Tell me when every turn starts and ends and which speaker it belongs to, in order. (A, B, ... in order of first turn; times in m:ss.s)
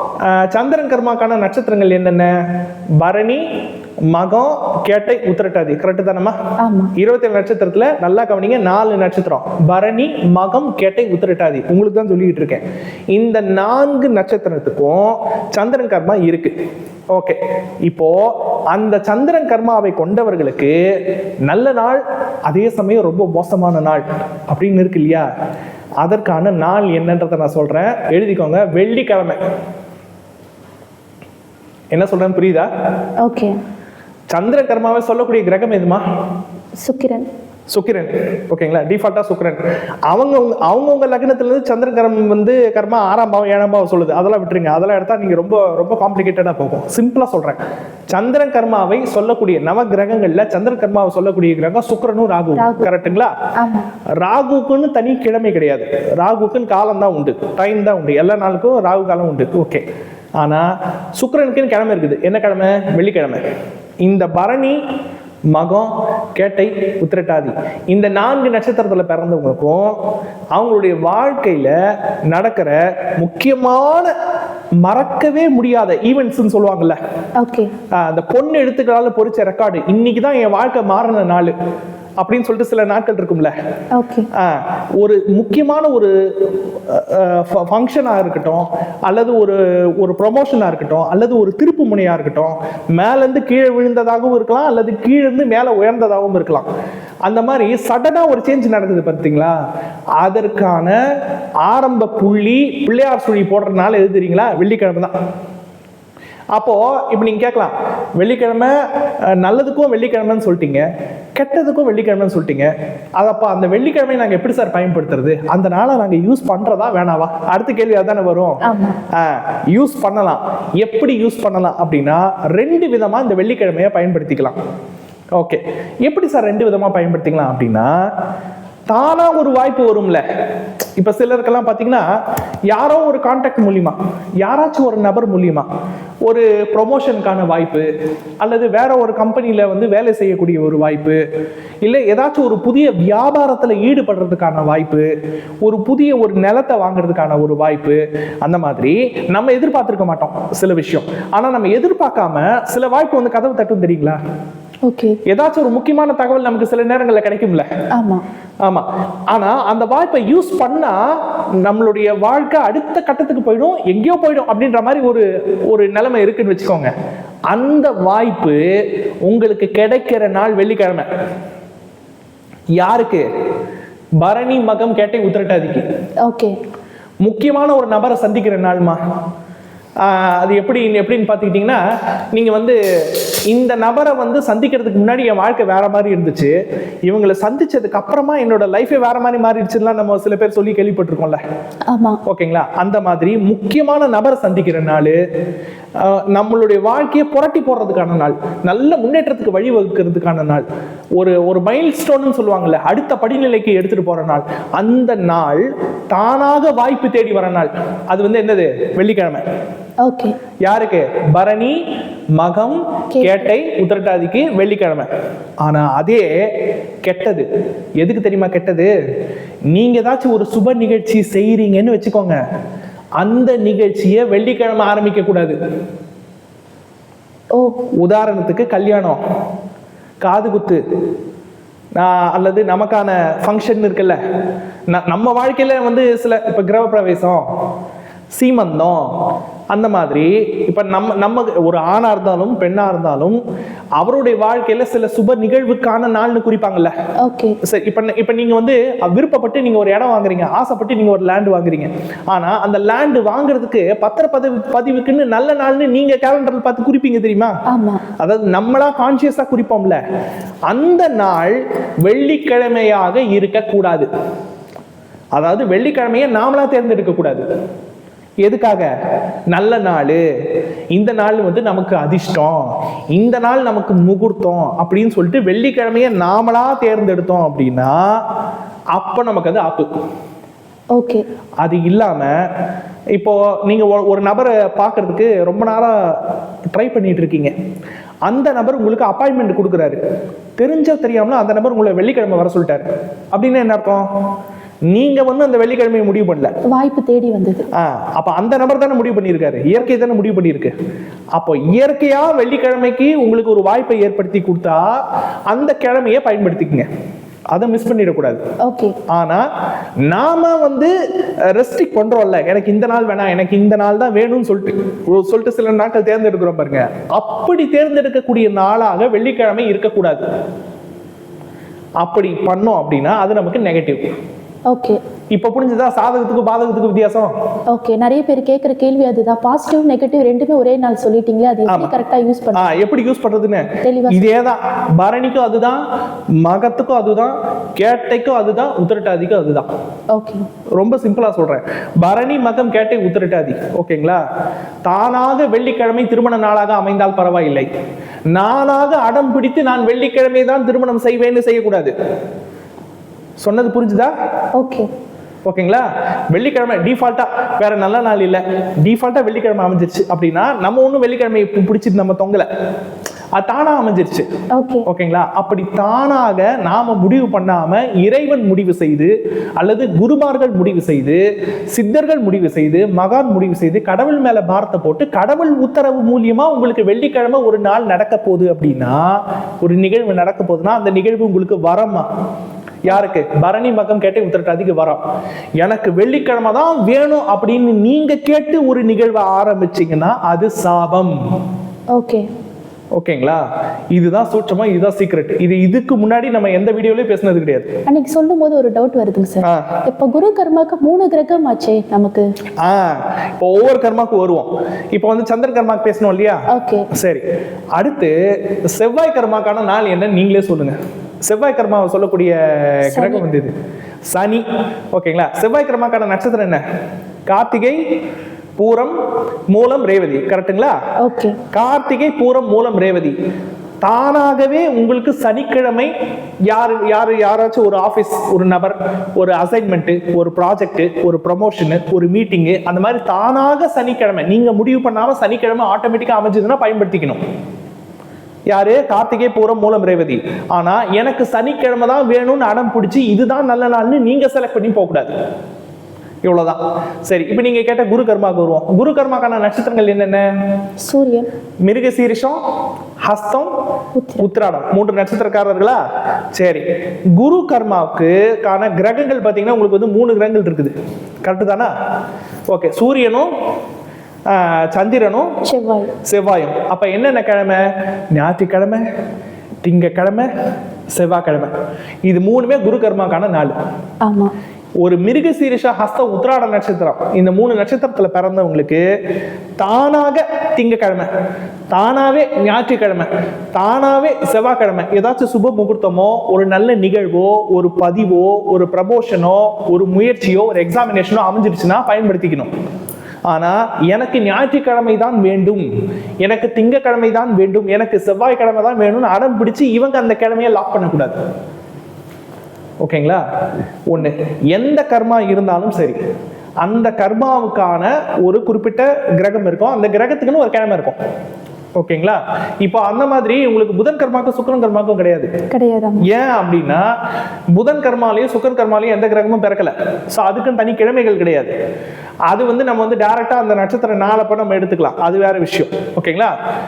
0:00.2-0:02.3 A
0:03.0-0:03.4 A
0:04.1-0:06.4 A
0:06.6-0:06.9 B
0:07.0-0:16.5 A
0:17.1-0:20.8 A
0:21.5-0:25.3 A
0:26.0-0:29.4 A
0:31.9-0:32.7 A
0:33.2-0:33.6 B
0:34.3-0:36.0 A
0:36.8-0:37.3 B
0:37.7-0:47.6 A
0:48.1-0:53.3 A
0:52.6-0:53.9 B
0:54.2-0:59.8 A
1:00.4-1:03.4 A
1:04.0-1:04.8 A
1:05.5-1:09.9 A
1:10.6-1:11.7 A
1:12.3-1:14.1 A
1:14.8-1:17.0 A
1:17.4-1:17.7 B
1:18.0-1:21.5 A
1:22.2-1:23.5 A
1:23.9-1:24.3 B
1:24.4-1:36.7 A
1:37.3-1:39.6 A
1:40.2-1:41.0 A
1:41.6-1:45.1 A
1:46.5-1:48.7 A
1:49.4-1:50.8 A
1:51.4-1:58.6 A
1:58.6-1:59.0 B
1:59.1-2:04.6 A
2:05.4-2:07.9 A
2:08.9-2:10.2 A
2:11.0-2:12.1 A
2:12.7-2:15.7 A
2:16.3-2:17.9 A
2:18.4-2:21.2 A
2:21.8-2:25.1 A
2:25.6-2:34.2 A
2:34.9-2:35.2 B
2:35.3-2:37.7 A
2:38.0-2:38.2 B
2:38.7-2:41.0 A
2:41.6-2:46.9 A
2:47.5-2:48.6 A
2:49.3-2:51.1 A
2:52.8-2:53.3 A
2:54.2-2:55.8 A
2:56.3-2:56.5 B
2:57.2-2:59.0 A
3:00.0-3:01.8 A
3:02.3-3:06.5 A
3:07.1-3:11.4 A
3:11.9-3:12.2 B
3:12.3-3:15.2 A
3:16.0-3:20.6 A
3:21.2-3:29.4 A
3:30.0-3:30.3 B
3:30.6-3:31.8 A
3:32.4-3:35.1 A
3:33.1-3:33.4 B
3:35.6-3:36.3 A
3:37.0-3:37.4 A
3:38.0-3:38.9 A
3:39.7-3:42.4 A
3:43.2-3:45.6 A
3:48.0-3:49.2 A
3:50.2-3:50.8 A
3:52.0-3:54.2 A
3:54.9-3:57.4 A
3:58.4-3:59.0 A
3:59.7-4:03.4 A
4:04.0-4:06.9 A
4:07.2-4:07.6 B
4:07.6-4:17.5 A
4:17.7-4:18.0 B
4:18.2-4:20.0 A
4:20.7-4:24.1 A
4:25.4-4:27.4 A
4:28.4-4:28.9 A
4:29.5-4:30.2 A
4:30.9-4:32.6 A
4:33.1-4:38.0 A
4:39.0-4:39.9 A
4:41.0-4:41.2 B
4:41.6-4:42.3 A
4:43.2-4:46.2 A
4:46.7-4:47.5 A
4:48.3-4:50.0 A
4:50.6-4:54.0 A
4:54.9-4:56.5 A
4:56.7-4:57.7 B
4:57.8-5:00.7 A
5:01.4-5:04.9 A
5:05.5-5:06.9 A
5:07.5-5:08.4 A
5:08.6-5:09.0 B
5:09.1-5:09.5 A
5:10.1-5:10.9 A
5:11.5-5:20.2 A
5:22.0-5:24.0 A
5:24.7-5:25.0 B
5:25.3-5:27.3 A
5:27.7-5:32.7 B
5:31.7-5:32.0 A
5:32.6-5:35.8 A
5:33.8-5:34.3 B
5:36.4-5:39.7 A
5:40.2-5:40.4 B
5:40.8-5:44.2 A
5:44.8-5:47.7 A
5:48.3-5:51.9 A
5:53.4-5:54.1 A
5:54.6-5:54.9 B
5:55.4-6:02.5 A
6:03.4-6:04.3 A
6:04.6-6:04.9 B
6:04.9-6:19.0 A
6:19.6-6:22.1 A
6:22.8-6:25.0 A
6:25.6-6:31.2 A
6:32.0-6:32.2 B
6:33.0-6:37.7 A
6:37.9-6:42.2 B
6:39.4-6:39.8 A
6:42.6-6:46.4 A
6:46.5-6:46.9 B
6:46.9-6:47.2 A
6:47.8-6:48.1 A
6:48.8-6:53.5 A
6:52.9-6:53.2 B
6:54.1-6:56.6 A
6:57.3-6:57.8 A
6:58.6-6:58.9 A
6:59.5-7:00.8 A
7:01.0-7:01.4 B
7:01.5-7:03.2 A
7:03.8-7:05.9 A
7:06.5-7:17.2 A
7:18.5-7:25.1 A
7:26.2-7:30.2 A
7:30.8-7:31.3 B
7:31.6-7:32.4 A
7:33.0-7:33.5 A
7:34.0-7:34.3 B
7:34.2-7:35.8 A
7:36.4-7:36.6 A
7:37.2-7:40.7 A
7:41.2-7:41.7 A
7:42.5-7:43.3 A
7:44.3-7:45.3 A
7:45.4-7:45.9 B
7:46.1-7:48.8 A
7:49.6-7:50.3 A
7:50.9-7:51.5 A
7:52.1-7:53.5 A
7:54.0-7:54.3 B
7:54.8-7:58.8 A
7:59.6-8:01.1 A
8:01.7-8:12.5 A
8:13.3-8:15.7 A
8:16.2-8:21.2 A
8:22.8-8:23.2 A
8:23.9-8:26.0 A
8:26.6-8:31.0 A
8:31.8-8:35.3 A
8:35.5-8:36.0 B
8:36.0-8:36.8 A
8:37.5-8:41.5 A
8:42.3-8:46.3 A